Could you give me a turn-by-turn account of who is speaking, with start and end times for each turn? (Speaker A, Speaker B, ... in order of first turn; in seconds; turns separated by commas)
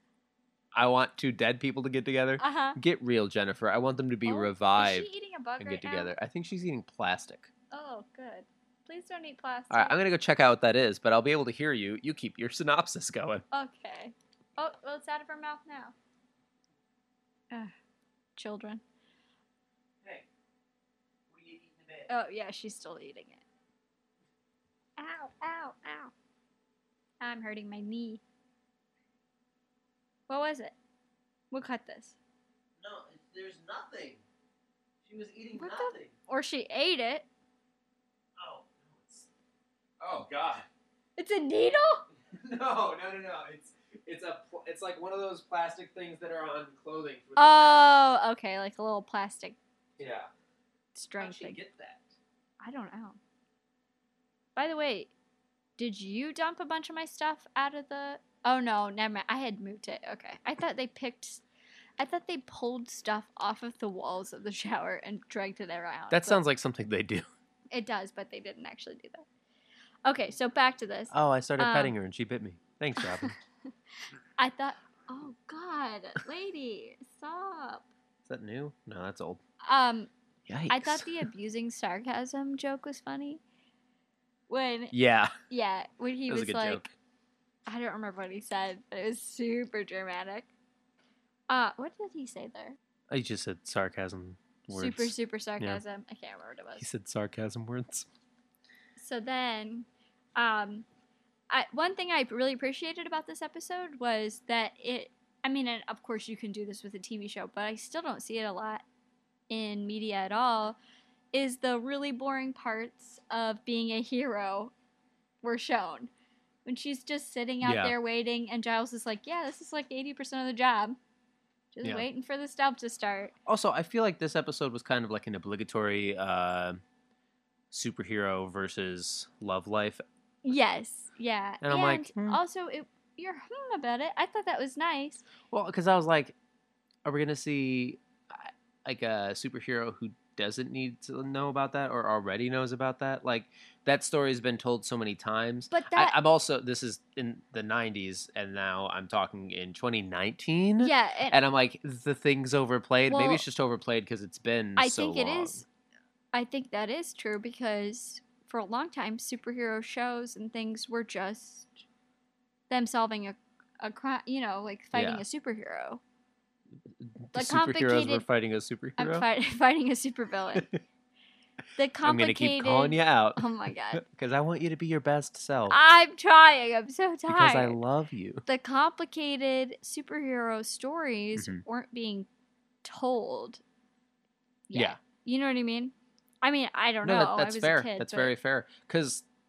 Speaker A: 0.7-7.5, Speaker B: 2.4-2.8, Speaker B: 4.3-6.1, Speaker B: 7.7-10.0, Speaker A: 9.7-13.4, Speaker B: 13.5-15.9, Speaker B: 18.4-18.8, Speaker A: 21.3-22.1, Speaker B: 22.1-23.4, Speaker B: 25.0-26.1, Speaker B: 27.2-28.2, Speaker B: 30.3-30.7, Speaker B: 31.5-32.2, Speaker A: 32.8-34.2, Speaker A: 35.0-36.1, Speaker B: 35.6-37.3, Speaker A: 38.4-39.3, Speaker A: 40.0-40.7, Speaker B: 41.2-42.0, Speaker A: 42.3-48.1, Speaker B: 47.4-49.6, Speaker A: 50.0-50.3, Speaker B: 51.0-51.6, Speaker A: 51.2-52.1, Speaker B: 52.6-53.2, Speaker B: 54.6-55.1, Speaker B: 55.8-61.4, Speaker B: 62.0-66.4, Speaker A: 66.1-67.3, Speaker B: 67.7-69.2, Speaker B: 70.1-71.9, Speaker A: 71.1-73.3, Speaker B: 73.0-73.3, Speaker B: 74.4-77.9, Speaker A: 78.3-79.4, Speaker B: 79.7-80.1, Speaker A: 80.5-81.3, Speaker B: 80.7-83.4, Speaker B: 84.5-84.9, Speaker A: 84.9-85.3, Speaker B: 85.5-86.9, Speaker A: 86.3-86.9, Speaker B: 87.7-90.5, Speaker B: 91.5-92.8, Speaker A: 93.1-95.8, Speaker B: 94.7-96.9, Speaker A: 96.8-98.1, Speaker B: 99.0-100.9, Speaker B: 101.5-108.8, Speaker B: 109.5-110.8, Speaker B: 111.3-114.7, Speaker B: 115.4-116.1, Speaker B: 116.7-121.0, Speaker A: 117.6-117.9, Speaker B: 121.7-123.3, Speaker A: 123.5-126.8, Speaker A: 127.7-130.0, Speaker B: 130.4-135.3, Speaker A: 131.6-132.4, Speaker A: 135.5-136.4, Speaker A: 137.1-155.6, Speaker B: 145.7-146.2, Speaker B: 150.8-151.4, Speaker B: 153.1-153.4, Speaker B: 154.8-155.7, Speaker B: 156.3-161.7, Speaker B: 162.7-166.0, Speaker A: 164.9-165.2, Speaker A: 167.0-169.2, Speaker B: 167.3-168.2, Speaker B: 169.0-170.7, Speaker B: 171.8-174.0, Speaker A: 172.0-175.8, Speaker B: 175.7-177.8, Speaker A: 177.3-178.4, Speaker B: 178.5-182.3, Speaker A: 181.4-181.6, Speaker B: 182.8-183.6, Speaker B: 184.7-188.3, Speaker A: 184.7-185.0, Speaker A: 187.0-189.2